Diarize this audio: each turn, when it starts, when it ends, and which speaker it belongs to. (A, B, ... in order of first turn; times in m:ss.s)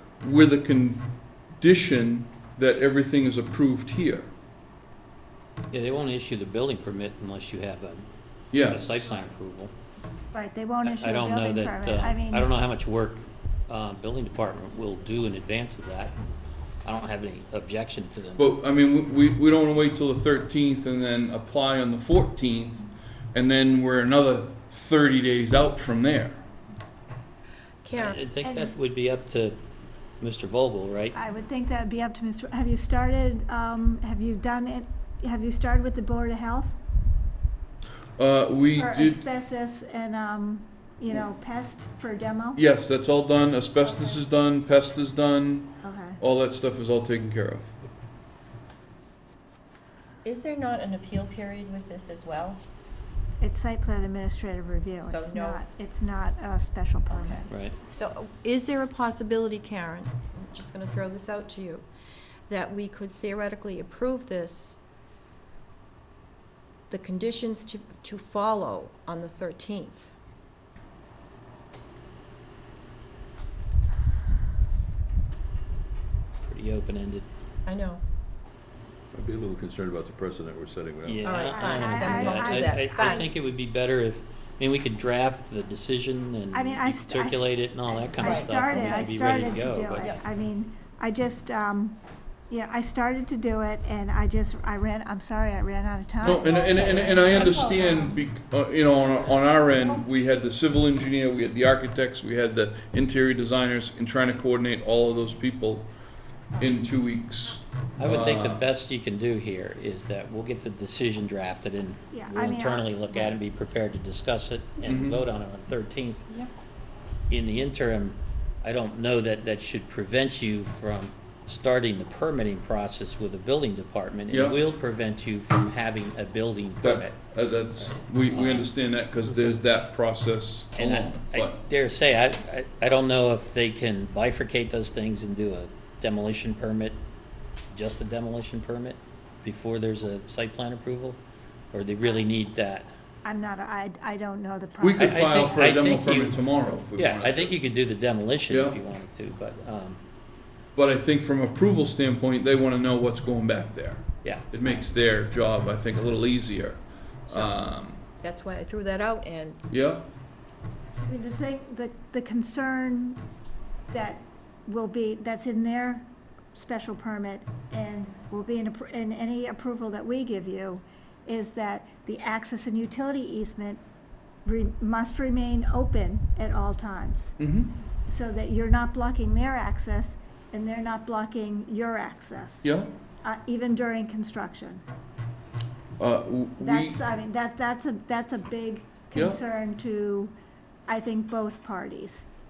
0:00.2-0:04.3 A
0:05.7-0:09.7 B
0:08.5-0:09.1 A
0:10.3-0:12.5 C
0:10.8-0:16.1 B
0:16.8-0:18.5 B
0:18.4-0:26.4 A
0:27.8-0:28.2 D
0:27.9-0:29.6 B
0:28.4-0:28.7 C
0:30.2-0:31.1 B
0:31.1-0:36.8 C
0:38.2-0:39.2 A
0:38.8-0:42.6 C
0:42.6-0:47.8 A
0:45.8-0:46.2 C
0:50.2-0:52.6 D
0:53.4-0:57.5 C
0:55.0-0:55.6 D
0:57.1-1:01.9 D
1:02.5-1:04.8 D
1:06.9-1:10.1 D
1:16.4-1:17.2 B
1:17.6-1:18.0 D
1:19.1-1:21.4 E
1:21.0-1:30.1 B
1:21.2-1:23.2 D
1:21.4-1:23.2 C
1:26.5-1:37.2 C
1:28.1-1:28.8 D
1:30.0-1:30.2 D
1:36.2-1:45.9 A
1:36.3-1:38.2 D
1:46.6-1:48.6 A
1:48.0-1:56.2 B
1:52.1-1:53.3 C
1:54.8-1:55.2 A
1:57.3-2:08.7 B
2:04.3-2:04.6 A
2:06.8-2:11.6 A
2:10.7-2:17.0 B
2:17.7-2:21.2 B
2:21.7-2:22.9 B
2:23.2-2:25.5 C
2:24.8-2:27.5 A
2:25.0-2:30.0 B
2:28.5-2:28.8 A
2:30.7-2:38.0 A
2:37.3-2:37.5 D
2:38.2-2:39.6 D
2:39.7-2:40.0 A
2:41.0-2:43.2 C
2:43.9-2:53.8 C
2:54.4-2:57.4 C
2:57.4-2:57.7 A
2:58.0-3:02.7 C
3:02.6-3:02.9 A
3:03.2-3:04.8 C
3:06.0-3:07.0 A
3:06.6-3:10.3 C
3:09.1-3:09.4 A
3:10.9-3:12.2 C